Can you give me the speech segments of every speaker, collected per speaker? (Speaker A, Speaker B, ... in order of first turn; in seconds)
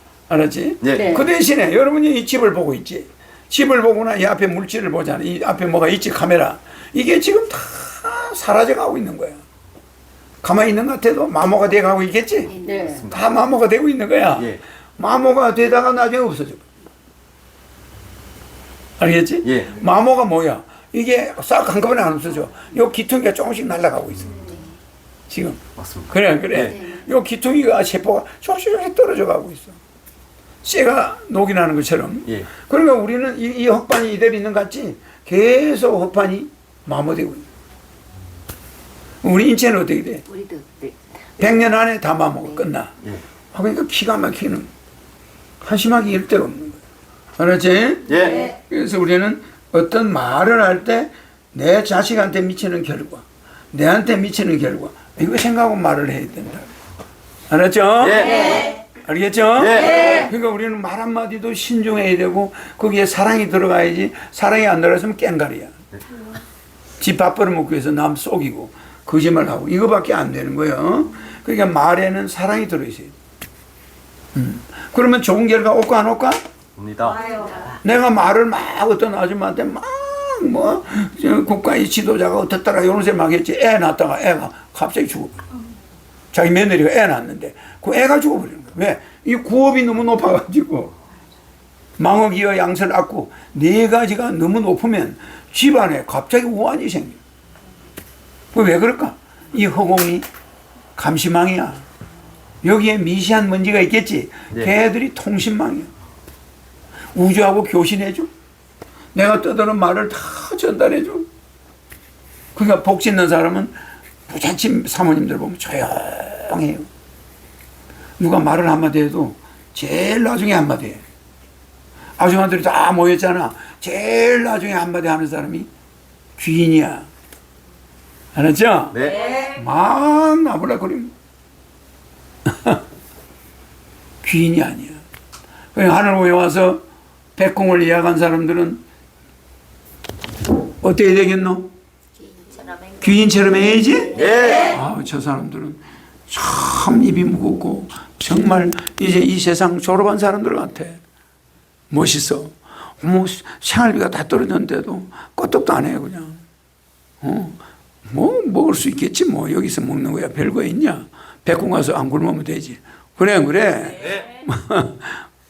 Speaker A: 0.3-9.4, 10.4-12.6, 13.1-16.6, 19.0-24.4, 25.3-29.8, 30.6-37.5, 39.2-40.2, 41.4-42.9, 43.5-44.7, 45.6-46.8, 47.4-56.7, 57.5-65.7, 67.0-73.1, 74.3-76.4, 77.8-85.4, 86.3-90.9, 92.0-97.2, 98.5-100.2, 101.0-101.8, 102.6-105.9, 107.1-108.3, 109.1-111.3, 112.5-113.8, 114.3-116.9, 118.2-121.0, 122.2-125.7, 126.4-127.1, 128.3-131.1, 132.5-132.8, 134.2-135.0, 135.7-136.8, 137.4-138.8, 140.8-141.7, 143.0-151.0, 151.9-156.4, 157.2-165.2
Speaker B: 0.8-1.2, 12.9-13.2, 19.4-19.7, 25.8-26.8, 48.1-48.4, 58.1-58.4, 76.8-77.2, 128.9-129.3, 144.2-144.7
Speaker C: 0.9-1.3, 12.5-13.1, 24.2-24.7, 26.6-26.9, 40.3-41.6, 77.1-77.7, 142.2-143.0